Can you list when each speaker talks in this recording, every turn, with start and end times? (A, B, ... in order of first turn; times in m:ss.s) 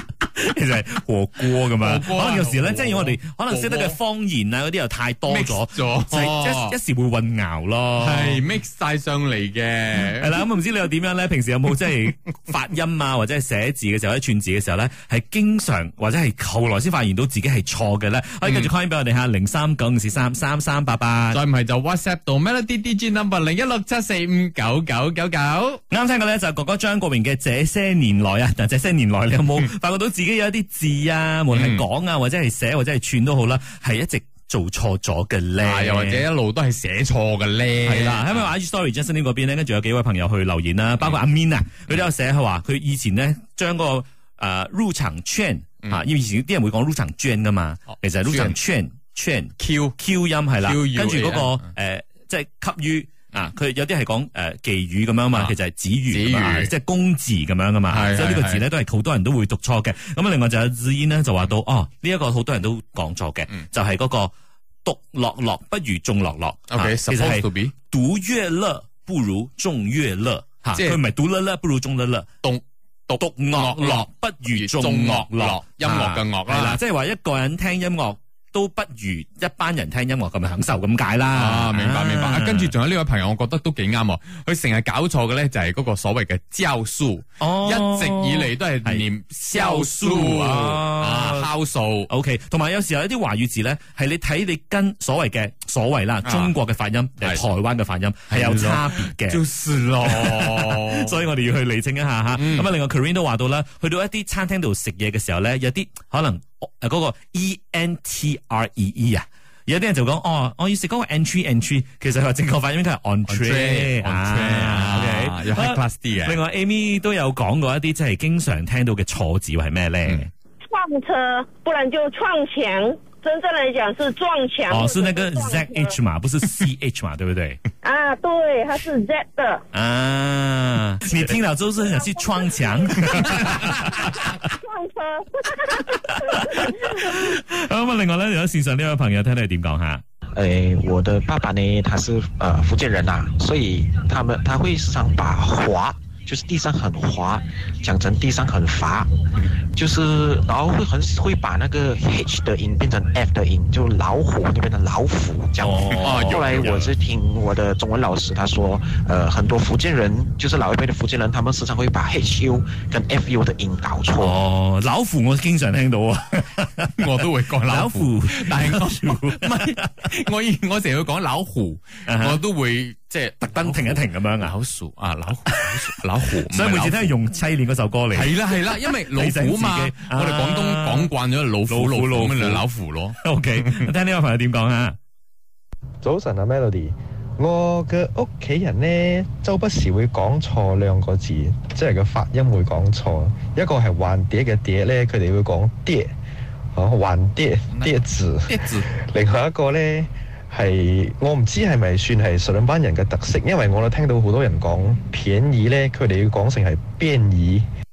0:00.2-0:08.4 A
0:01.8-0:04.0 B
0:05.3-0:06.8 B
0:08.0-0:10.4 B
0:10.1-0:21.4 A
0:18.4-0:18.7 B
0:21.3-0:25.8 B
0:25.9-0:36.2 A
0:31.5-0:31.8 B
0:35.6-0:38.5 B
0:37.8-1:04.3 A
0:48.2-0:48.6 B
0:49.6-0:50.0 B
0:50.6-0:51.7 B
0:56.1-0:56.7 B
0:57.9-0:58.6 B
1:04.8-1:12.3 A
1:06.7-1:07.7 B
1:10.7-1:11.0 B
1:12.4-1:16.8 B
1:13.2-1:22.7 A
1:21.3-1:32.1 B
1:27.4-1:31.5 A
1:32.1-1:39.4 A
1:36.2-1:36.5 B
1:38.3-1:41.2 B
1:40.0-2:00.3 A
1:42.4-1:42.7 B
1:53.3-1:56.4 B
2:00.7-2:06.0 C
2:04.7-2:07.6 A
2:07.8-2:09.6 C
2:09.7-2:14.3 A
2:11.9-2:13.2 C
2:14.5-2:17.2 C
2:15.8-2:20.0 A
2:20.3-2:29.1 D
2:29.8-2:44.4 D
2:35.6-2:36.4 A
2:35.9-2:36.9 B
2:44.2-2:46.9 A
2:47.0-2:57.1 B
2:47.6-2:49.8 A
2:52.0-2:52.4 A
2:53.4-2:54.5 A
2:56.4-3:01.1 A
2:58.1-3:03.9 B
3:01.7-3:02.6 A
3:03.2-3:05.0 A
3:06.0-3:16.1 E
3:16.8-3:27.6 E
3:18.5-3:18.9 B